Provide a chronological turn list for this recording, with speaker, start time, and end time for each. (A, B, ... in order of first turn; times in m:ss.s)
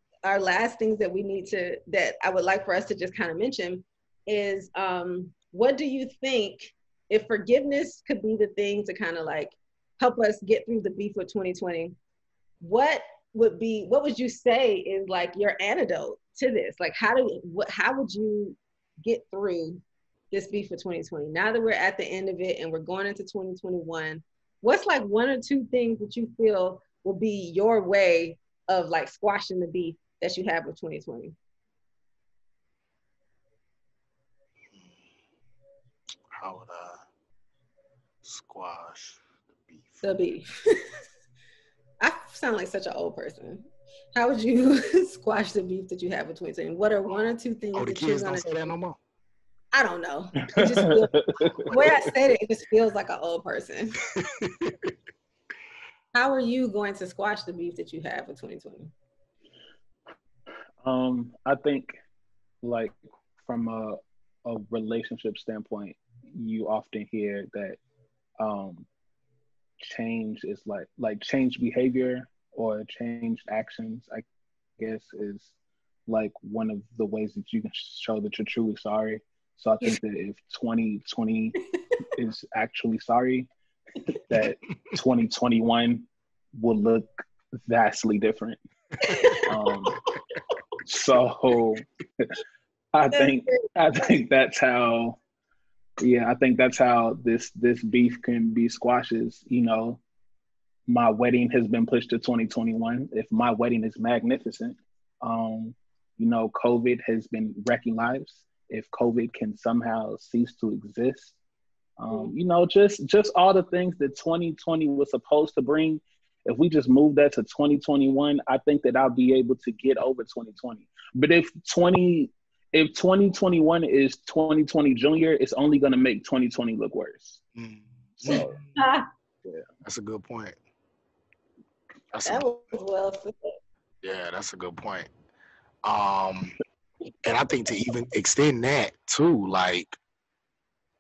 0:00.2-0:11.9 A
0:12.6-0:19.8 A
0:20.3-0:31.4 A
0:36.4-0:37.0 B
0:38.2-0:39.2 B
0:40.0-0:40.8 A
0:42.0-0:48.7 A
0:47.7-0:49.0 B
0:49.7-0:51.2 A
0:50.4-0:51.8 C
0:51.6-0:52.1 B
0:51.7-0:54.0 A
0:54.2-0:54.9 B
0:56.1-0:58.9 A
1:00.8-1:01.9 C
1:02.6-1:02.9 C
1:03.4-1:07.8 C
1:08.4-1:08.9 C
1:09.8-1:14.2 C
1:14.8-1:15.5 C
1:16.1-1:21.6 C
1:22.1-1:23.5 C
1:24.1-1:27.1 C
1:27.6-1:28.6 C
1:29.0-1:29.9 A
1:29.3-1:30.0 C
1:30.8-1:32.4 C
1:32.9-1:35.2 C
1:33.1-1:33.6 A
1:36.0-1:40.0 C
1:40.9-1:51.3 C
1:52.0-2:07.4 C
2:07.5-2:08.7 B
2:08.2-2:08.6 C
2:08.3-2:09.1 A
2:09.8-2:10.6 B
2:12.1-2:12.5 B
2:12.2-2:13.5 A
2:14.0-2:15.1 B
2:15.8-2:16.5 B
2:17.2-2:20.0 B